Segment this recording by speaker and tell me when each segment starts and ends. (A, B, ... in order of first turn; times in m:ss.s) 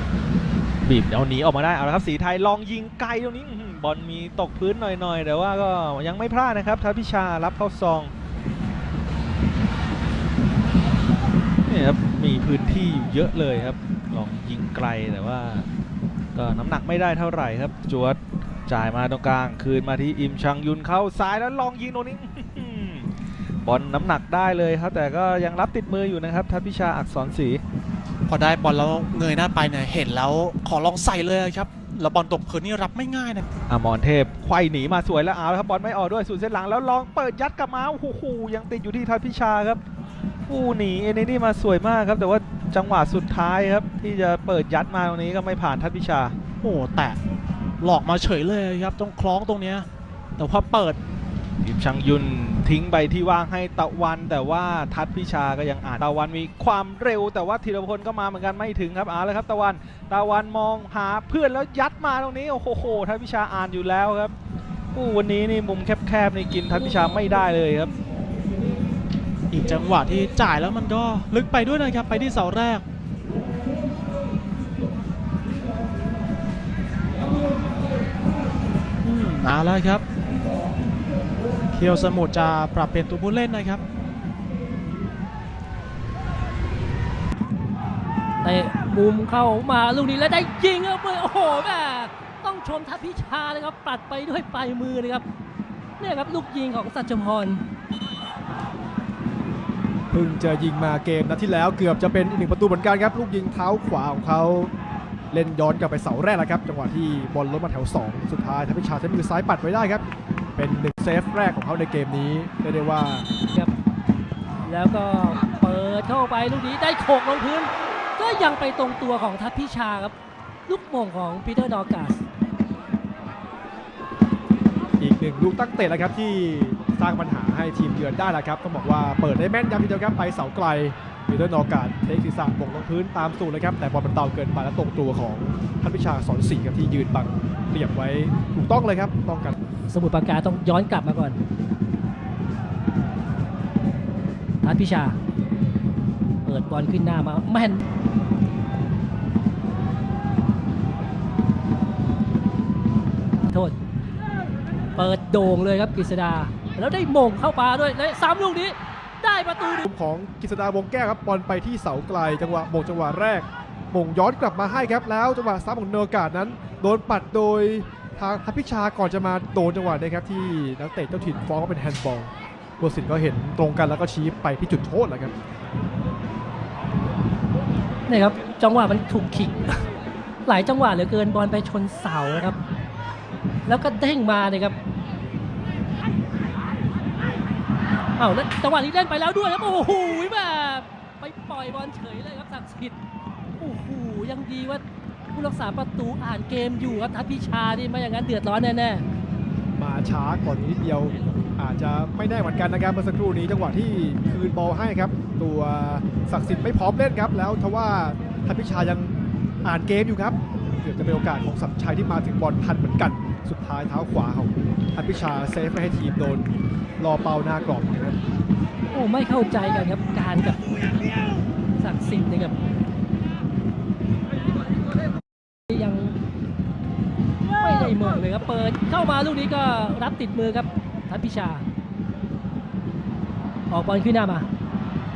0:00.8-0:08.1 A
0:11.7-0:15.7 A
0:16.4-0:23.1 A
0:23.6-0:27.6 A
0:28.3-0:33.4 B
0:33.7-0:39.8 A
0:40.5-0:46.4 A
0:46.6-0:47.2 B
0:47.8-0:51.0 B
0:51.6-1:04.3 A
1:05.0-1:07.9 A
1:09.5-1:12.8 B
1:19.0-1:20.0 B
1:21.7-1:23.8 B
1:28.4-1:35.2 C
1:36.0-1:37.6 C
1:40.1-1:44.7 D
1:45.3-1:50.0 D
1:50.6-1:53.3 D
1:54.6-2:00.2 C
2:00.7-2:02.2 C
2:05.0-2:19.5 D
2:19.9-2:21.4 C
2:24.6-2:25.2 C
2:26.4-2:27.8 C
2:33.5-2:33.8 C
2:35.0-2:39.8 C
2:39.8-2:55.3 D
2:58.1-2:59.8 C
3:00.5-3:02.6 C
3:03.7-3:04.8 C
3:08.2-3:13.0 C
3:13.6-3:14.8 C
3:15.3-3:19.1 C
3:19.8-3:38.1 D
3:38.9-3:40.6 C
3:41.8-3:42.6 C
3:45.7-3:46.2 C
3:47.6-3:51.7 C
3:53.7-3:54.5 C